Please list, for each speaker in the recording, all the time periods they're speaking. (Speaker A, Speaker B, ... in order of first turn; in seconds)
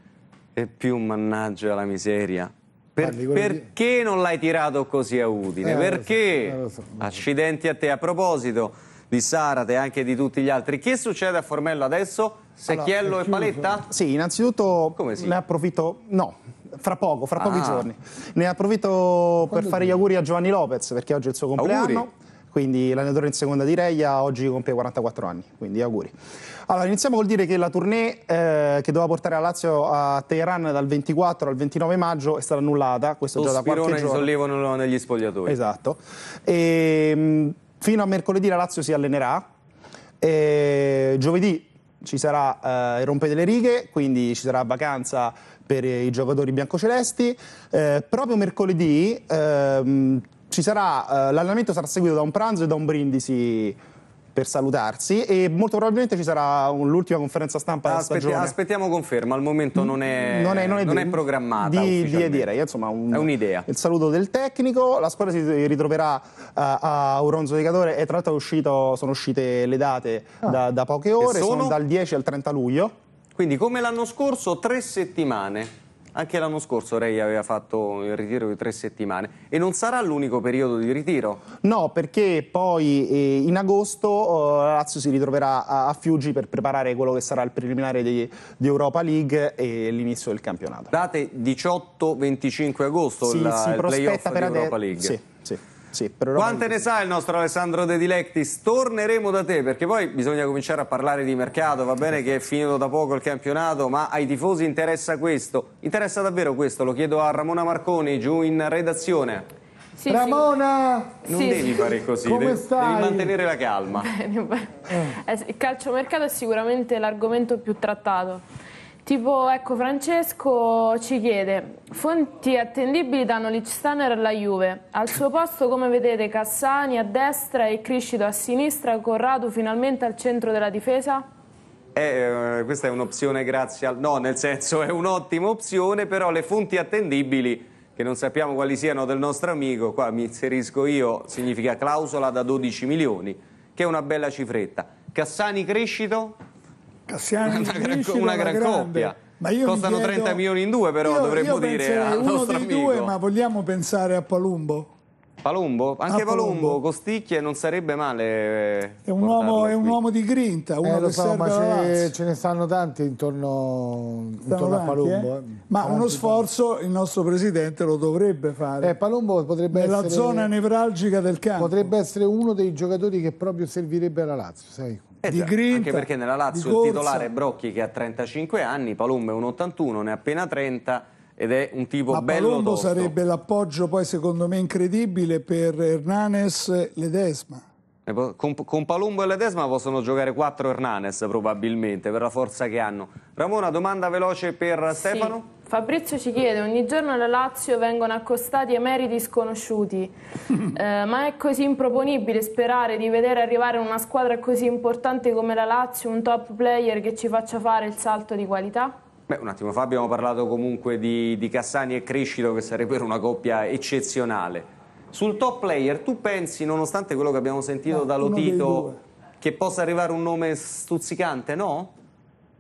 Speaker A: 0.5-13.9, 14.9-15.3, 17.4-17.9, 21.6-22.1, 33.4-35.5, 57.9-62.5, 63.1-63.7, 71.2-71.8, 73.3-81.4, 90.9-95.2, 96.3-109.5, 111.2-114.1, 131.9-146.3, 147.4-153.1, 155.4-160.0, 175.2-183.1, 188.1-195.5, 209.3-221.9
Speaker B: 3.0-3.7, 5.6-7.2, 12.7-13.7, 19.5-20.1, 110.1-111.2, 111.9-113.3, 160.8-166.5, 168.8-170.5, 171.6-175.2
Speaker C: 13.9-26.1, 26.7-34.3, 35.5-39.5, 40.2-53.8, 54.3-58.5, 59.8-72.9, 81.6-90.9, 93.2-96.8
Speaker D: 110.0-110.5, 111.3-111.8, 113.9-118.4, 119.0-131.2, 194.9-208.9
Speaker E: 147.1-150.4, 151.0-154.9, 156.1-156.8, 159.0-162.1, 164.4-168.9, 169.7-171.7, 175.2-177.3, 182.1-187.6, 217.9-219.0